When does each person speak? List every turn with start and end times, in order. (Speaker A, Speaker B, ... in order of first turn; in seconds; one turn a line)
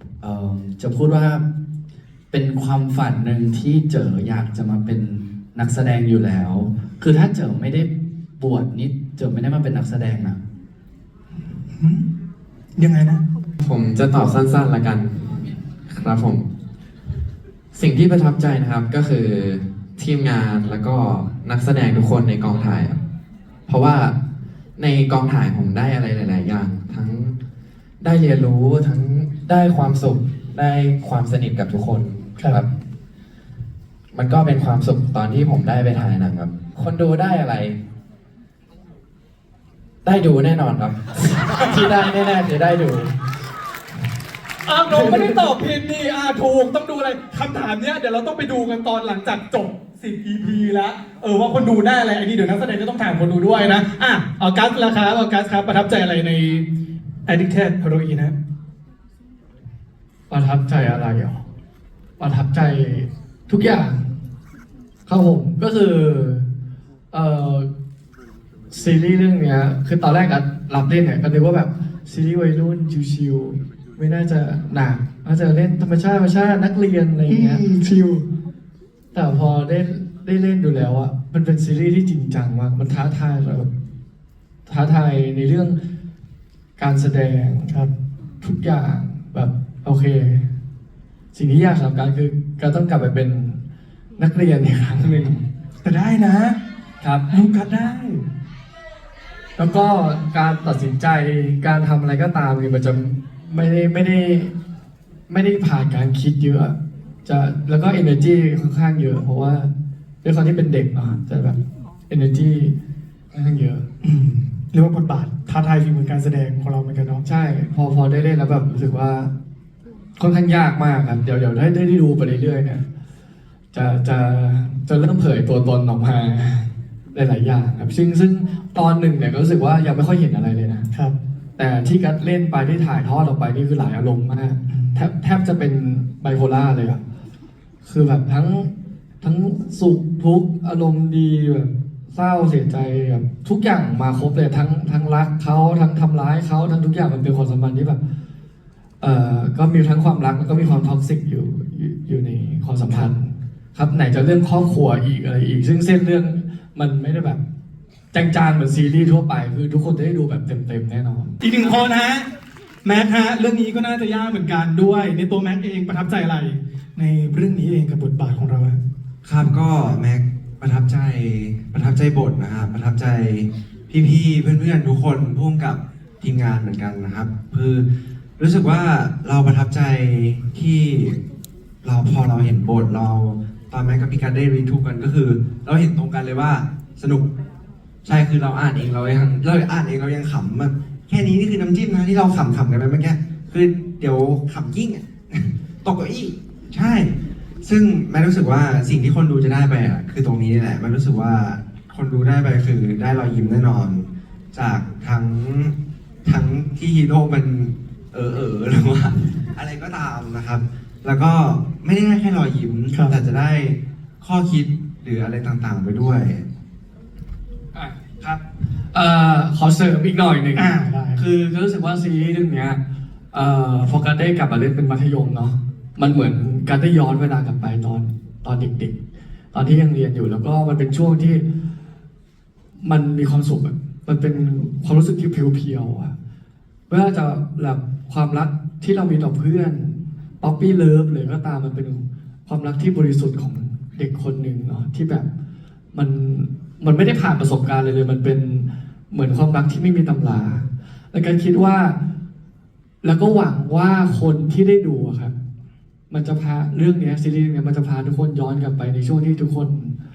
Speaker A: 0.2-1.5
Speaker A: 2.3-10.4
Speaker B: 11.7-12.1
Speaker B: 12.8-13.2
Speaker C: 13.6-16.5
Speaker C: 17.7-23.0
Speaker C: 23.7-24.2
Speaker C: 24.8-27.4
Speaker C: 28.0-32.7
Speaker C: 34.1-37.8
Speaker C: 40.0-43.1
Speaker B: 44.6-56.7
Speaker B: 57.3-58.4
Speaker D: 60.3-61.4
Speaker D: 62.2-64.1
Speaker D: 65.1-66.5
Speaker D: 67.1-67.7
Speaker D: 68.7-77.6
Speaker B: 77.3-78.3
Speaker D: 79.1-83.7
Speaker D: 84.7-85.8
Speaker D: 86.8-87.7
Speaker D: 88.4-90.5
Speaker D: 91.3-93.6
Speaker D: 94.2-95.4
Speaker B: 95.8-96.6
Speaker D: 97.0-97.3
Speaker B: 97.3-98.2
Speaker D: 99.6-104.5
Speaker D: 105.3-109.7
Speaker D: 110.2-111.6
Speaker D: 112.1-112.8
Speaker D: 113.3-113.9
Speaker B: 114.0-117.2
Speaker D: 117.2-119.3
Speaker D: 120.2-122.8
Speaker D: 123.7-130.9
Speaker D: 131.6-137.0
Speaker B: 134.7-135.0
Speaker D: 137.8-148.0
Speaker D: 149.0-157.4
Speaker D: 158.1-161.4
Speaker B: 161.4-162.3
Speaker B: 162.8-168.8
Speaker E: 169.2-177.8
Speaker E: 178.4-181.2
Speaker E: 181.8-187.3
Speaker E: 188.0-216.5
Speaker B: 212.9-213.2
Speaker D: 217.7-222.8
Speaker B: 220.6-221.2
Speaker D: 223.3-229.0
Speaker D: 229.5-231.4
Speaker D: 232.8-236.1
Speaker D: 236.9-245.3
Speaker D: 245.9-252.0
Speaker D: 253.0-255.3
Speaker D: 256.1-259.9